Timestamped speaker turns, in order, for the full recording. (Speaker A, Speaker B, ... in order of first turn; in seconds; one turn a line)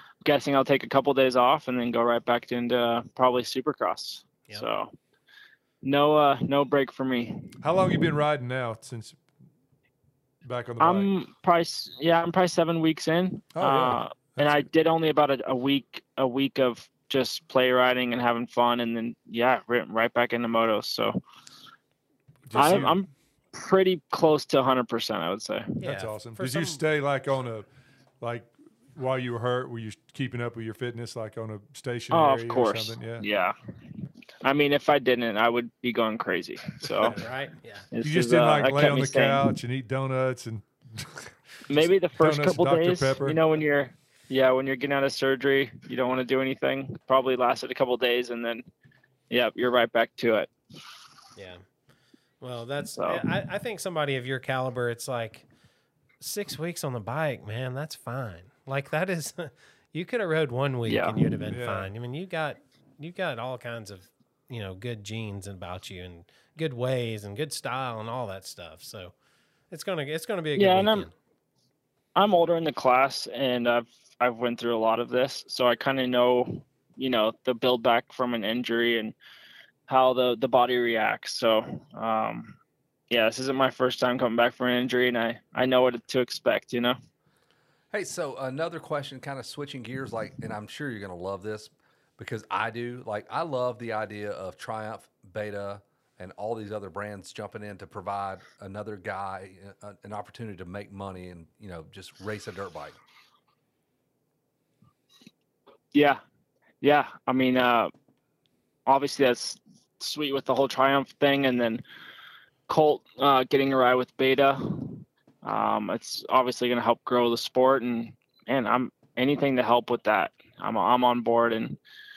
Speaker A: 0.2-4.9
Speaker A: 5.8-7.6
Speaker B: 7.6-9.2
Speaker B: 10.4-11.1
Speaker A: 10.8-21.2
Speaker B: 13.6-14.7
Speaker B: 22.5-23.0
Speaker A: 22.5-25.8
Speaker C: 25.8-26.8
Speaker B: 25.8-27.6
Speaker B: 28.2-33.2
Speaker A: 32.1-33.5
Speaker A: 34.4-37.2
Speaker C: 37.0-37.9
Speaker A: 37.9-39.5
Speaker B: 38.0-43.4
Speaker A: 41.7-48.6
Speaker A: 49.3-50.5
Speaker C: 51.4-51.6
Speaker C: 52.4-55.4
Speaker A: 52.9-53.2
Speaker C: 56.2-69.1
Speaker A: 60.9-61.2
Speaker B: 61.5-61.9
Speaker C: 69.7-71.1
Speaker A: 70.5-71.1
Speaker A: 72.1-79.1
Speaker A: 79.9-82.6
Speaker A: 83.1-87.0
Speaker D: 87.9-103.0
Speaker A: 105.9-106.2
Speaker A: 106.8-107.9
Speaker A: 108.8-111.8
Speaker A: 112.7-121.8